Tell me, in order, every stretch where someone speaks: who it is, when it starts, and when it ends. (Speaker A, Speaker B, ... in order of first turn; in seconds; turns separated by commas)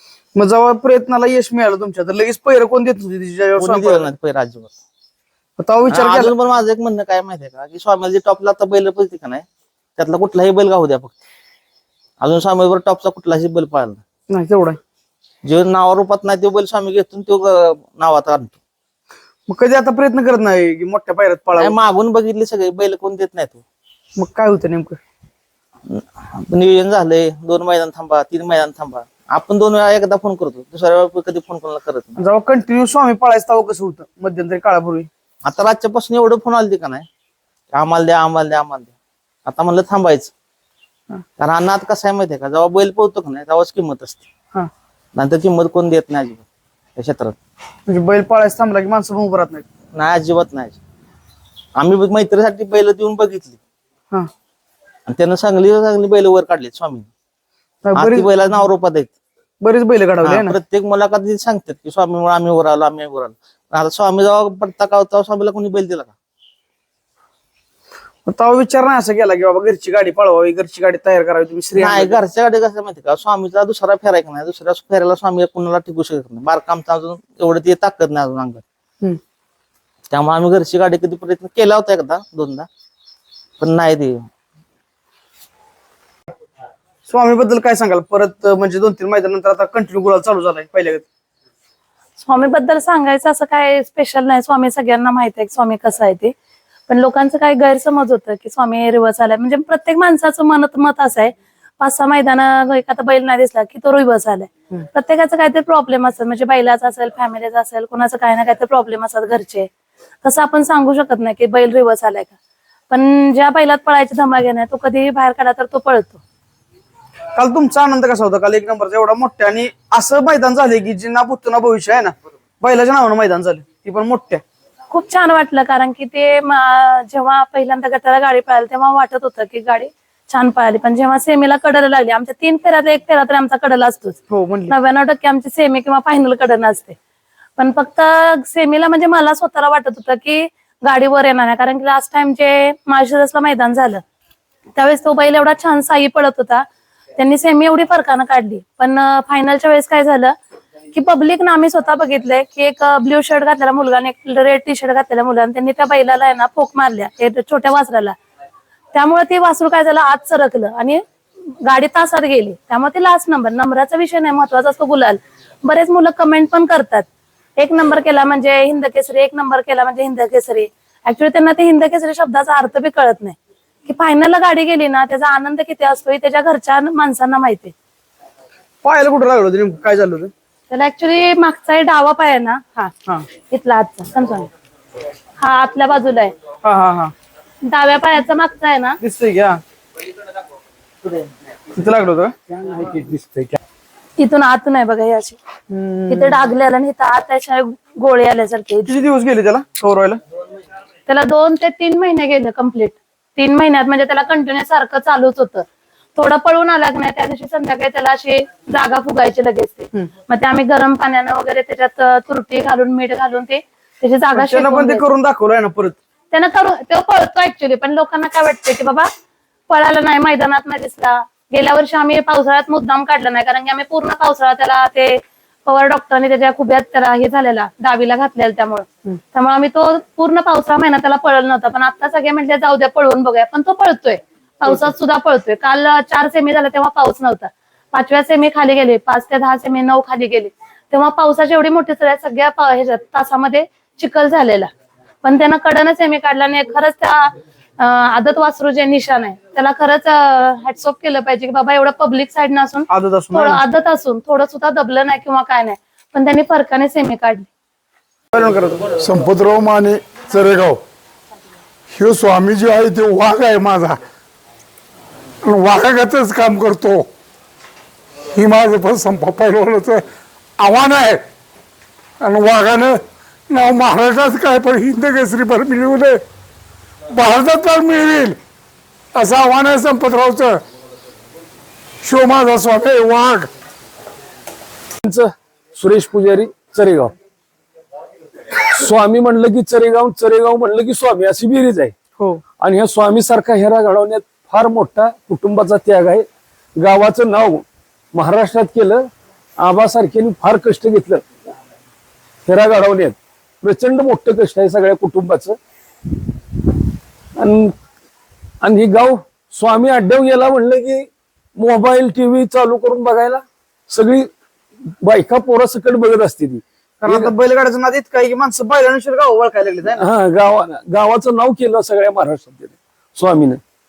Speaker A: 0.3-4.1, Speaker B: 3.6-4.7, Speaker A: 5.6-6.3, Speaker B: 5.9-9.4, Speaker B: 10.0-11.2, Speaker B: 12.2-14.0, Speaker A: 14.3-14.8, Speaker B: 15.4-18.6, Speaker A: 19.5-21.7, Speaker B: 21.6-23.6, Speaker A: 24.2-25.0, Speaker B: 25.9-32.2, Speaker A: 32.2-35.1, Speaker B: 35.4-37.1, Speaker B: 37.7-38.9, Speaker B: 39.5-40.3, Speaker B: 41.4-44.2, Speaker B: 45.1-46.4, Speaker B: 47.0-47.4, Speaker A: 47.9-49.6, Speaker B: 49.9-50.8, Speaker B: 51.8-53.6, Speaker B: 55.1-57.1, Speaker A: 57.8-58.5, Speaker B: 57.9-59.1, Speaker A: 59.6-60.5, Speaker B: 60.2-66.1, Speaker A: 68.2-72.2, Speaker B: 71.8-78.6, Speaker B: 80.1-82.7, Speaker B: 83.6-84.2, Speaker A: 87.1-91.0, Speaker C: 92.2-96.3, Speaker C: 96.9-109.7, Speaker C: 110.2-112.3, Speaker C: 112.9-116.2, Speaker A: 117.3-124.4, Speaker C: 124.9-137.0, Speaker A: 134.3-134.7, Speaker C: 137.6-144.0, Speaker C: 144.8-146.6, Speaker C: 147.2-150.3, Speaker C: 150.9-158.1, Speaker C: 158.9-161.0, Speaker C: 161.6-167.1, Speaker C: 167.6-177.7, Speaker A: 178.8-180.3, Speaker C: 180.7-184.5, Speaker C: 185.4-186.3, Speaker A: 186.6-187.1, Speaker C: 187.6-189.0, Speaker A: 189.0-189.6, Speaker A: 191.7-192.3, Speaker D: 192.6-193.6, Speaker C: 194.2-195.4, Speaker A: 195.7-196.4, Speaker C: 196.1-198.9, Speaker A: 198.8-200.2, Speaker C: 201.1-205.6, Speaker C: 206.1-215.0, Speaker A: 214.3-216.0, Speaker C: 216.3-219.1, Speaker C: 219.7-244.7, Speaker C: 245.2-257.5, Speaker A: 252.9-253.6, Speaker A: 258.3-258.9, Speaker E: 259.0-260.8, Speaker E: 261.9-264.0, Speaker E: 265.4-267.1, Speaker E: 268.3-270.0, Speaker E: 270.6-271.2, Speaker E: 272.2-276.2, Speaker E: 277.1-278.4, Speaker E: 279.1-280.6, Speaker E: 282.0-283.5, Speaker D: 285.0-287.1, Speaker D: 288.5-291.9, Speaker D: 292.6-301.2, Speaker D: 302.4-305.6, Speaker D: 307.4-307.7, Speaker D: 308.6-314.3, Speaker D: 315.0-317.3, Speaker A: 317.0-320.1, Speaker D: 319.9-323.6